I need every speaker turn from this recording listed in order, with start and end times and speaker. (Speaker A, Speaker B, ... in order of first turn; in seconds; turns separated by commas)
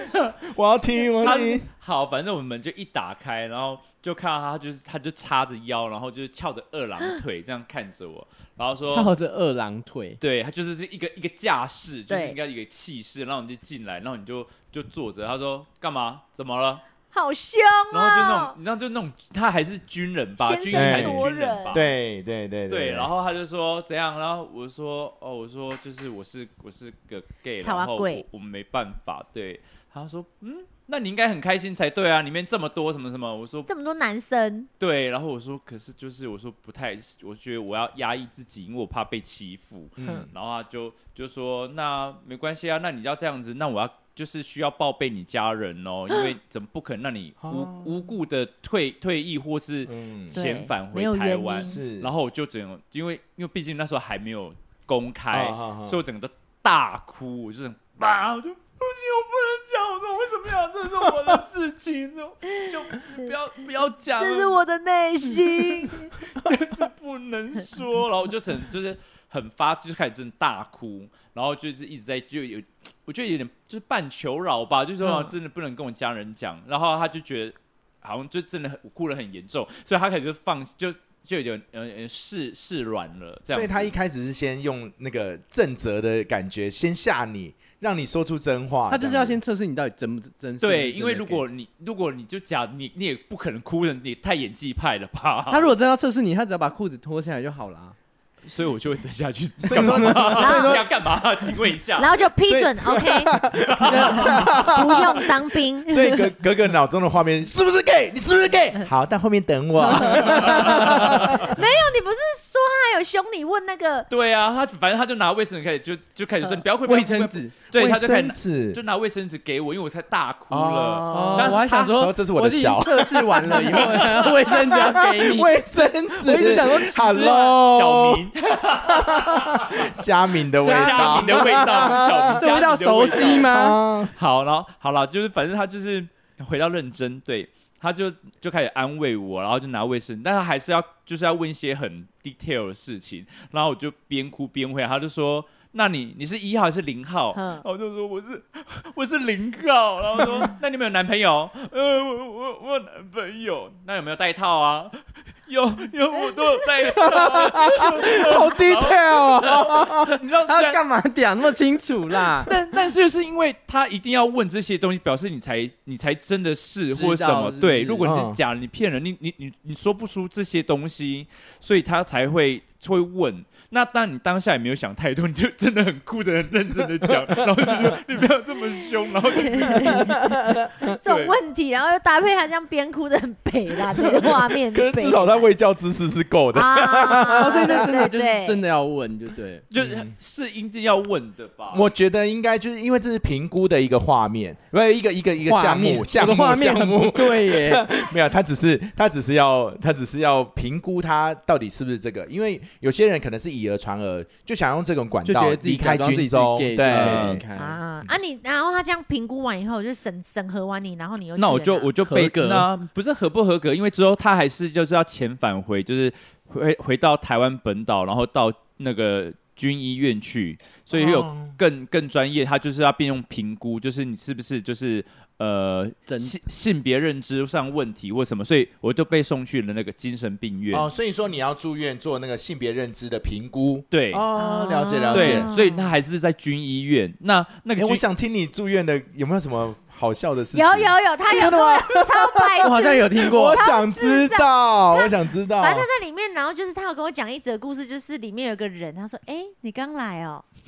Speaker A: 0.4-1.7, Speaker B: 1.2-9.1, Speaker C: 8.8-10.2, Speaker B: 10.2-16.8, Speaker D: 12.1-12.4, Speaker D: 17.1-18.6, Speaker B: 17.9-21.9, Speaker D: 20.4-21.8, Speaker A: 20.7-23.1, Speaker B: 22.7-33.7, Speaker D: 27.6-28.2, Speaker D: 33.7-34.7, Speaker B: 34.8-64.6, Speaker A: 40.0-40.3, Speaker A: 47.4-47.9, Speaker A: 49.9-50.4, Speaker D: 50.3-51.8, Speaker A: 51.6-52.1, Speaker A: 55.3-56.0, Speaker D: 64.2-66.2, Speaker B: 65.9-83.9, Speaker D: 75.0-75.3, Speaker A: 83.5-89.4, Speaker C: 88.9-91.4, Speaker B: 90.6-95.7, Speaker C: 95.5-98.0, Speaker B: 98.5-102.2, Speaker A: 99.6-100.9, Speaker C: 99.7-100.3, Speaker D: 100.4-100.8, Speaker D: 102.0-103.3, Speaker A: 102.5-105.3, Speaker B: 103.6-104.4, Speaker C: 103.9-104.7, Speaker D: 104.1-106.3, Speaker A: 105.9-111.6, Speaker D: 109.9-114.1, Speaker B: 110.2-111.4, Speaker B: 114.1-122.0, Speaker C: 116.8-117.6, Speaker A: 117.7-118.8, Speaker A: 120.5-128.3, Speaker C: 121.1-125.5, Speaker B: 123.5-124.7, Speaker C: 126.2-127.1, Speaker B: 127.0-129.9, Speaker A: 128.8-132.4, Speaker B: 130.6-133.5, Speaker C: 130.6-133.8, Speaker A: 133.4-134.2, Speaker B: 134.1-160.8, Speaker D: 147.3-147.7, Speaker A: 150.2-150.5, Speaker A: 156.8-160.2, Speaker C: 160.4-162.5, Speaker B: 162.4-180.1, Speaker C: 166.9-168.1, Speaker A: 168.0-168.4, Speaker A: 177.0-178.0, Speaker D: 179.4-180.2, Speaker A: 179.7-180.9, Speaker D: 181.0-185.5, Speaker B: 181.0-181.3, Speaker A: 184.0-187.9, Speaker D: 186.5-188.6, Speaker C: 187.4-189.6, Speaker B: 189.7-191.9, Speaker A: 189.8-190.1, Speaker A: 191.7-207.4, Speaker C: 195.5-197.9, Speaker C: 205.2-207.8, Speaker B: 206.8-207.4, Speaker D: 207.6-211.9, Speaker B: 211.4-230.9, Speaker C: 212.0-212.7, Speaker A: 220.9-221.6, Speaker C: 226.1-226.4, Speaker A: 230.7-235.5, Speaker B: 233.9-234.2, Speaker D: 234.3-235.9, Speaker B: 235.1-238.0, Speaker A: 237.8-245.9, Speaker D: 240.5-250.4, Speaker C: 242.6-243.6